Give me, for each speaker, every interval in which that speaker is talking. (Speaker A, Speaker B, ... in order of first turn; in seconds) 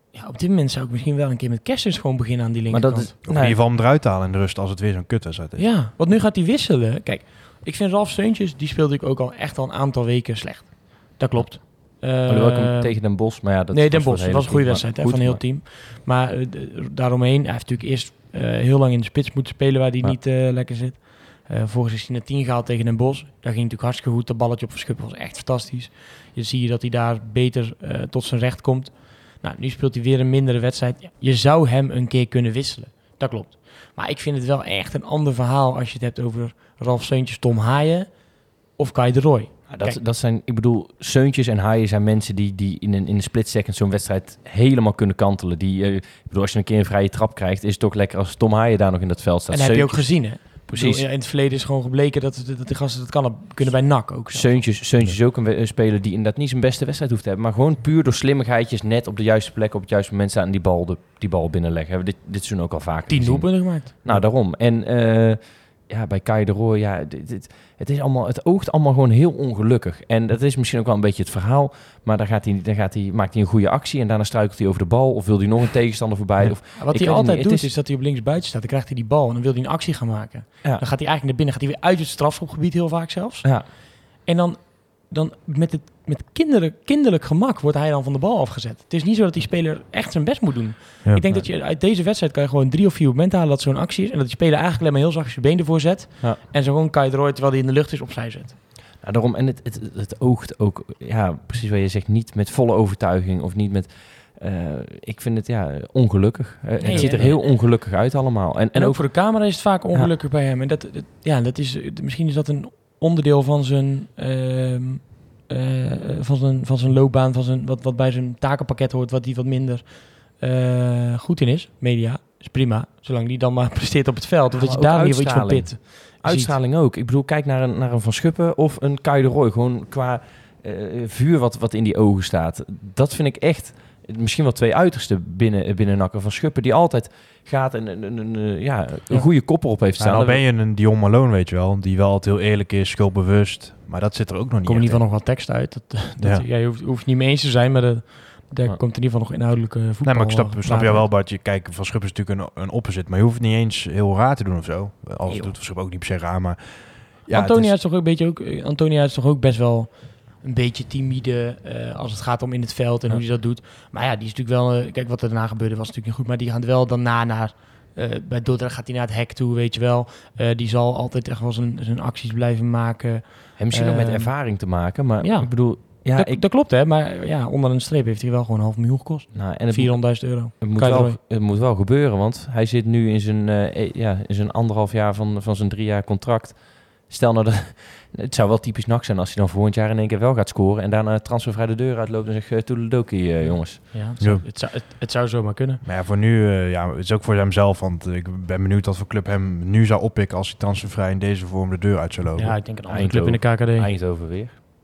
Speaker A: 0.1-3.1, 5.6-40.0, 49.5-54.7, 63.1-64.2, 76.8-98.5, 106.8-107.6, 108.7-126.6, 144.7-151.1, 155.3-155.5, 157.3-181.2, 193.4-195.8, 202.4-203.9
Speaker B: 2.7-3.6, 11.4-15.4, 39.7-51.0, 54.3-77.7, 99.0-110.1, 124.5-140.4, 173.6-176.4, 179.3-194.0, 202.9-204.5
Speaker C: 3.3-5.7, 140.0-145.1, 146.2-146.4, 150.0-157.7, 194.2-194.4, 195.8-202.6